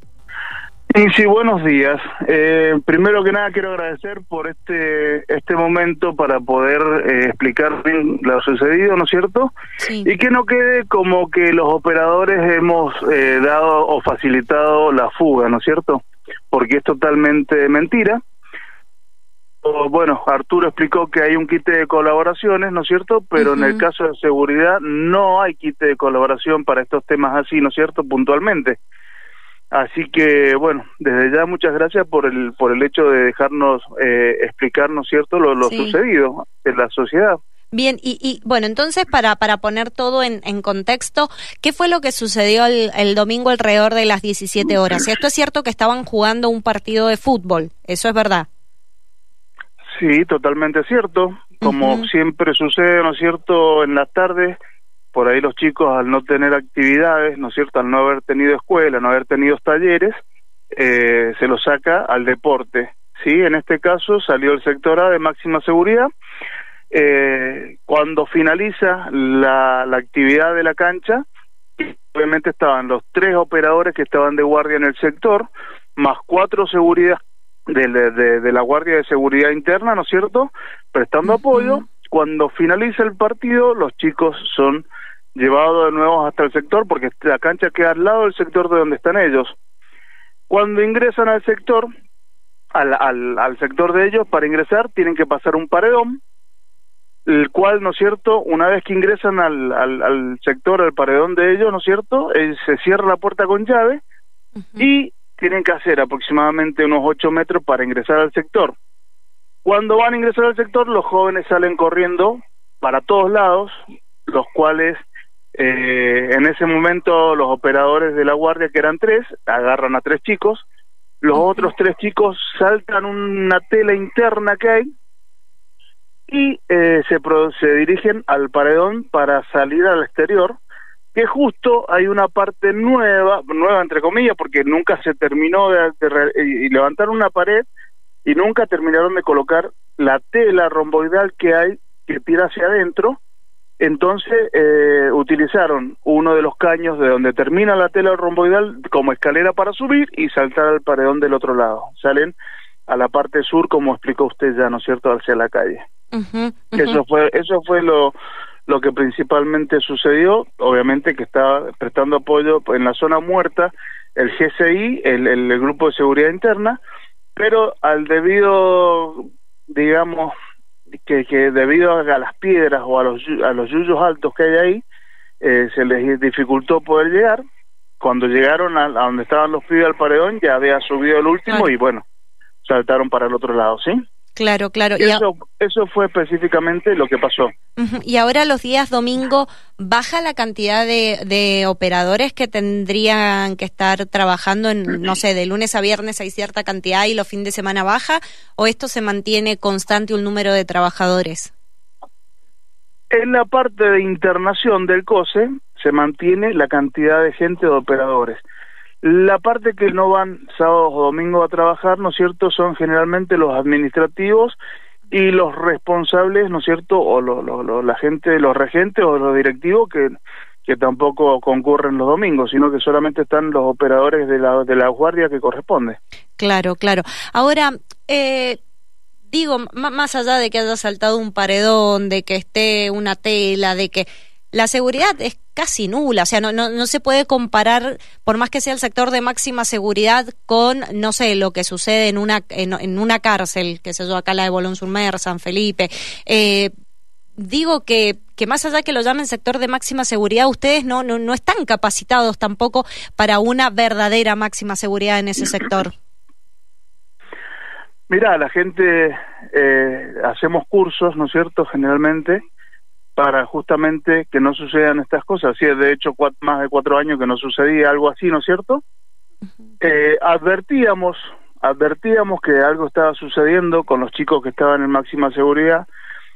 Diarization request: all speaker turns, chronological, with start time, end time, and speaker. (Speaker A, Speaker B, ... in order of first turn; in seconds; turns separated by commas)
Speaker A: 0.9-9.5, Speaker B: 9.8-10.1, Speaker A: 10.0-18.2, Speaker A: 19.6-28.8, Speaker B: 23.4-23.8, Speaker A: 29.7-37.4, Speaker B: 35.6-35.9, Speaker B: 37.7-48.5, Speaker A: 49.9-54.6, Speaker B: 51.6-52.1, Speaker A: 55.1-60.1, Speaker A: 60.7-66.1, Speaker A: 66.9-71.2, Speaker A: 71.8-89.5, Speaker A: 90.5-91.9, Speaker A: 92.7-96.2, Speaker A: 97.2-104.0, Speaker A: 104.8-108.7, Speaker A: 109.6-115.0, Speaker A: 115.5-120.7, Speaker A: 121.2-124.9, Speaker B: 121.3-121.7, Speaker A: 126.3-130.6, Speaker A: 131.1-137.7, Speaker A: 138.2-143.2, Speaker A: 143.8-152.3, Speaker A: 152.9-155.8, Speaker B: 156.1-157.0, Speaker A: 156.8-158.2, Speaker A: 158.7-166.8, Speaker A: 167.3-170.3, Speaker A: 171.0-174.8, Speaker A: 175.4-177.4, Speaker A: 178.0-182.0, Speaker A: 182.6-184.0, Speaker B: 184.3-185.2, Speaker A: 185.0-187.5, Speaker B: 187.8-201.5, Speaker A: 203.1-208.4, Speaker A: 209.0-214.6, Speaker A: 215.1-220.1, Speaker A: 220.7-226.0, Speaker B: 226.4-228.6, Speaker B: 229.3-246.7, Speaker B: 247.4-255.9, Speaker A: 258.1-262.4, Speaker A: 263.1-268.8, Speaker A: 269.8-275.9